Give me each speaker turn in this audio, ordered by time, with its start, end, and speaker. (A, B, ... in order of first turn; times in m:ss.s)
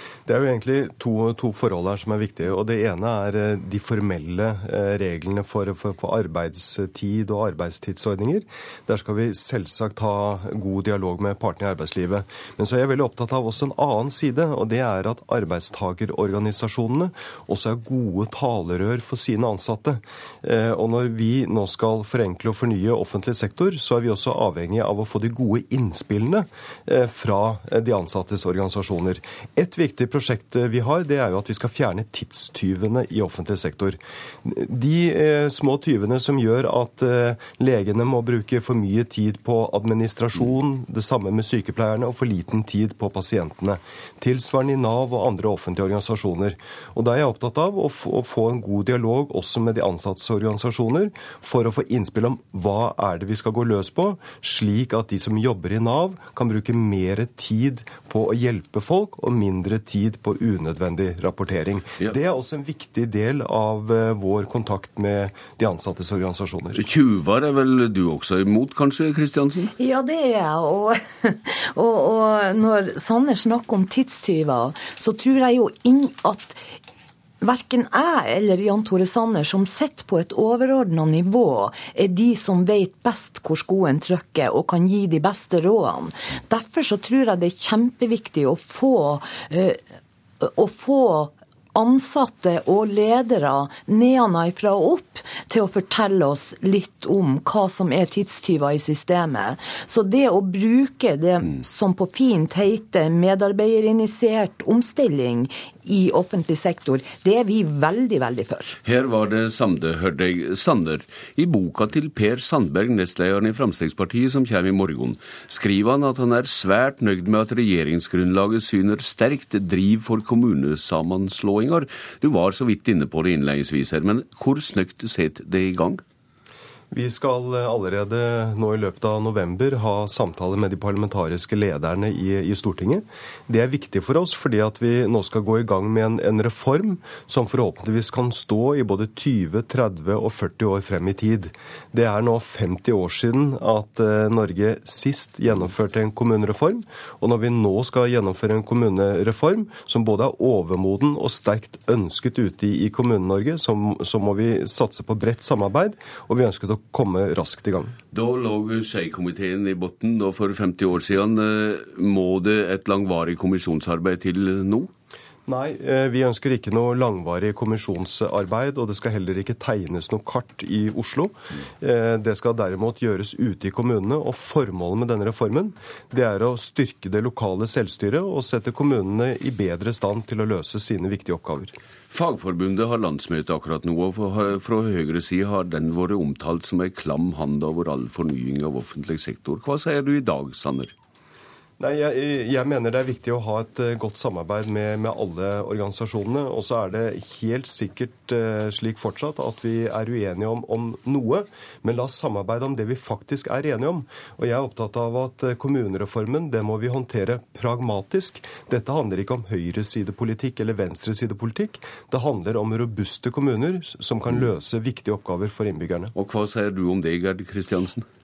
0:00.3-1:06.8 A
1:06.7-1:09.7 B
1:09.8-1:16.6 C
1:17.4-1:29.8 C
1:30.4-1:48.8 C
1:48.8-2:06.0 B
2:06.9-2:37.9 A
2:38.1-2:44.9 B
2:45.5-3:01.7 A
3:02.1-3:10.9 B
3:11.8-3:36.1 A
3:36.1-3:38.0 B